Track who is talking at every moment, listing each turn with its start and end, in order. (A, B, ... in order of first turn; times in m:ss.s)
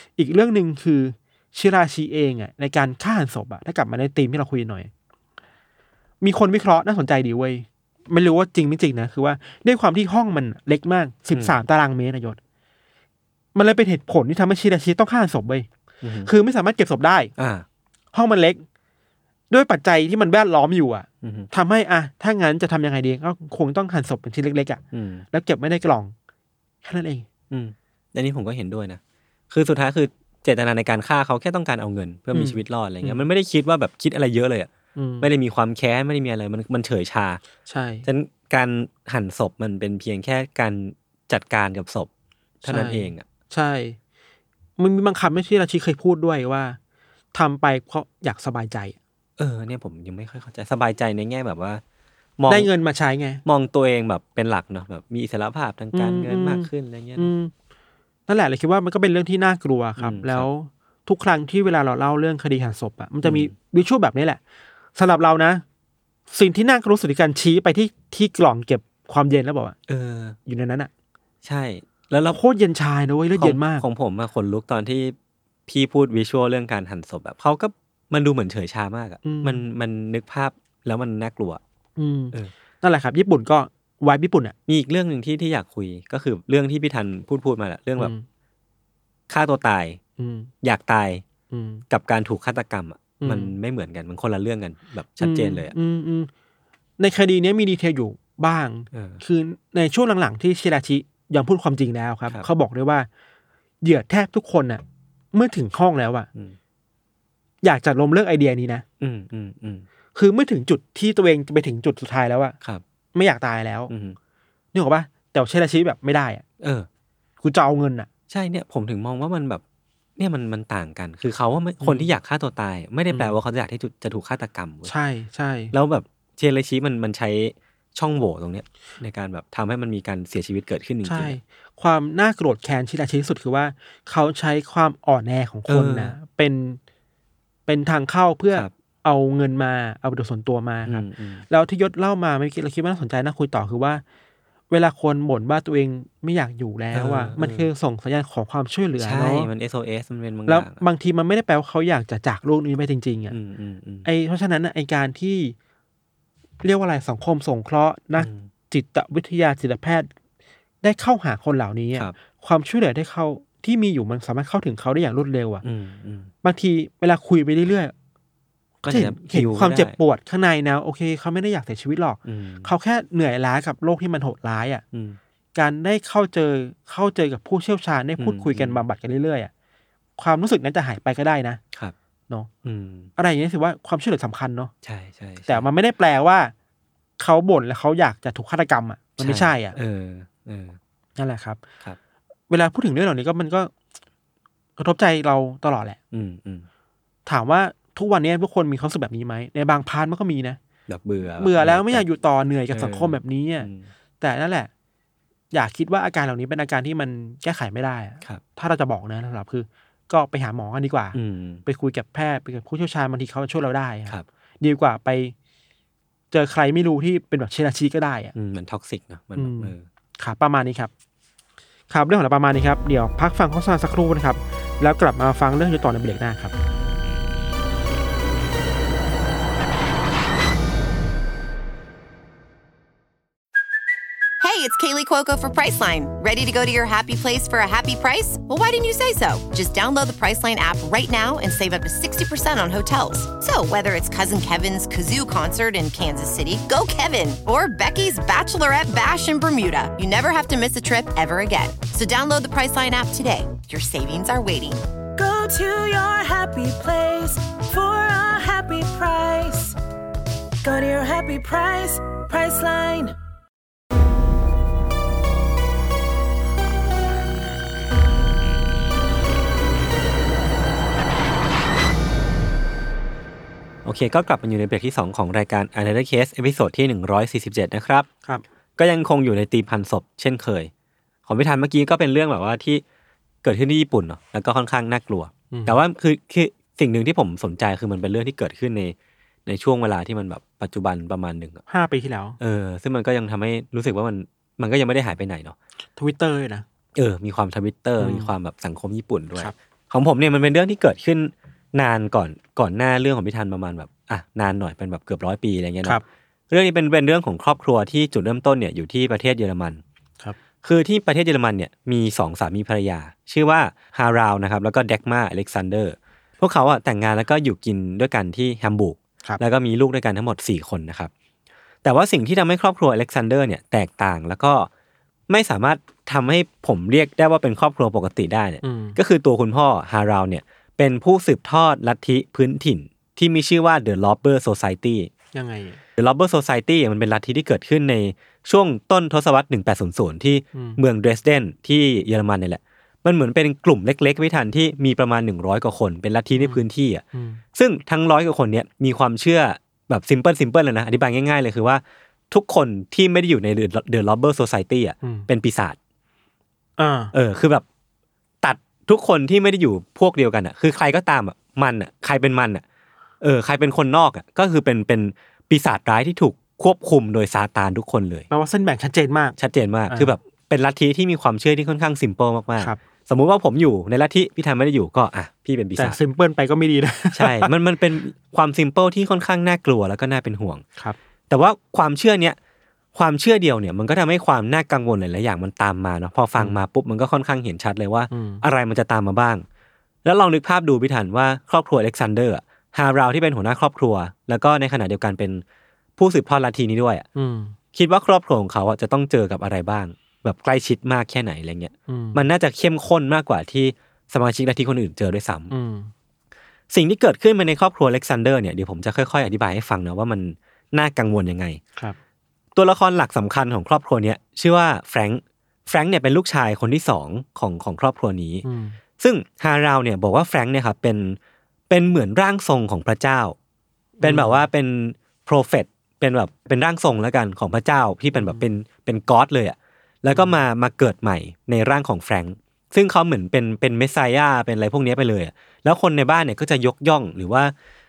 0:00.2-0:04.9 A
0:06.2-0:12.4 A
0:11.3-0:11.6 B
0:13.6-0:15.7 A
0:16.0-0:16.3 B
0:16.2-0:17.3 A
0:17.4-0:17.6 B
0:18.1-0:18.6 A
0:19.5-0:26.1 A
0:21.2-0:21.5 B
0:24.9-0:25.2 B
0:26.8-0:27.3 A
0:27.5-0:34.7 B
0:32.3-0:33.2 A
0:35.0-0:35.3 A
0:35.2-0:37.4 B
0:37.7-0:38.1 A
0:38.0-0:42.1 B
0:42.6-0:43.3 B
0:42.6-0:44.0 A
0:44.8-0:46.8 A
0:47.3-0:49.0 A
0:49.4-0:51.8 B
0:52.4-0:52.7 B
0:52.5-0:53.4 A
0:53.4-0:57.3 B
0:55.9-0:57.5 A
0:58.3-1:04.4 A
1:00.0-1:00.5 B
1:03.2-1:03.5 B
1:05.0-1:05.6 A
1:06.3-1:09.8 A
1:09.9-1:10.4 B
1:10.5-1:10.9 A
1:11.4-1:12.4 B
1:12.3-1:13.8 A
1:13.4-1:15.2 B
1:15.7-1:21.6 B
1:19.2-1:19.6 A
1:22.0-1:24.6 A
1:24.7-1:28.1 B
1:28.0-1:28.2 A
1:29.3-1:30.0 B
1:30.2-1:30.5 A
1:30.6-1:31.2 B
1:31.5-1:31.8 A
1:31.9-1:35.7 B
1:33.2-1:33.6 A
1:35.2-1:36.3 A
1:37.0-1:43.1 A
1:38.9-1:39.2 B
1:43.8-1:46.3 A
1:47.6-1:48.8 A
1:49.0-1:49.9 B
1:50.2-1:52.6 A
1:53.1-1:53.9 A
1:53.9-1:54.2 B
1:54.7-1:56.4 A
1:56.6-1:56.9 B
1:57.4-1:58.1 A
1:58.3-1:59.6 B
2:00.2-2:04.9 B
2:01.8-2:02.1 A
2:03.1-2:03.4 A
2:04.9-2:05.7 A
2:05.7-2:11.4 B
2:11.0-2:16.8 A
2:15.7-2:16.2 B
2:17.7-2:24.0 A
2:20.9-2:21.5 B
2:24.7-2:29.5 A
2:26.9-2:27.7 B
2:29.0-2:30.8 B
2:30.5-2:33.4 A
2:33.3-2:34.1 B
2:34.0-2:35.6 A
2:36.6-2:40.1 A
2:38.2-2:38.5 B
2:40.8-2:45.6 A
2:45.6-2:46.3 B
2:46.4-2:47.9 A
2:48.8-2:50.0 B
2:48.9-2:54.8 A
2:52.2-2:52.7 B
2:54.9-2:55.2 B
2:55.6-2:59.5 A
2:58.2-2:58.8 B
3:00.2-3:01.6 A
3:02.6-3:03.1 B
3:03.2-3:04.7 A
3:04.8-3:05.7 B
3:05.5-3:06.5 A
3:07.2-3:09.8 A
3:09.2-3:10.8 B
3:11.2-3:11.6 A
3:12.5-3:13.7 A
3:14.8-3:16.0 A
3:16.1-3:16.7 B
3:17.3-3:20.6 A
3:20.9-3:22.0 B
3:21.4-3:24.7 A
3:22.7-3:23.9 B
3:25.5-3:35.3 A
3:31.1-3:31.6 B
3:36.3-3:38.4 A
3:38.4-3:39.9 B
3:39.4-3:40.9 A
3:41.9-3:46.5 A
3:54.4-4:14.8 C
4:15.2-4:19.8 D
4:20.6-4:23.2 D
4:33.8-4:38.1 B
4:38.8-4:40.7 B
4:41.3-4:42.8 B
4:43.4-4:49.0 B
4:45.5-4:45.8 A
4:49.5-4:51.6 B
4:51.7-4:52.4 A
4:52.4-4:55.6 B
4:56.0-4:56.6 A
4:57.0-5:06.0 B
4:58.0-4:58.3 A
5:06.5-5:09.8 B
5:10.6-5:21.1 B
5:21.8-5:24.7 B
5:25.3-5:35.1 B
5:28.6-5:29.0 A
5:35.3-5:35.8 A
5:36.0-5:47.0 B
5:40.5-5:40.8 A
5:46.4-5:47.4 A
5:47.6-5:55.8 B
5:55.0-5:55.3 A
5:56.8-5:57.1 A
5:57.1-5:57.6 B
5:58.4-6:02.6 B
6:03.2-6:08.3 B
6:08.3-6:09.4 A
6:09.4-6:16.0 B
6:15.8-6:17.5 A
6:17.1-6:20.6 B
6:21.3-6:22.4 B
6:22.9-6:29.4 B
6:28.1-6:28.4 A
6:30.0-6:35.4 B
6:36.0-6:37.0 B
6:37.2-6:37.6 A
6:37.7-6:45.5 B
6:41.9-6:42.2 A
6:45.5-6:45.9 A
6:46.7-6:51.6 B
6:52.6-6:58.4 B
6:58.4-6:58.8 A
6:59.0-7:01.2 B
7:01.7-7:03.4 B
7:04.0-7:04.5 A
7:04.0-7:17.5 B
7:08.1-7:08.4 A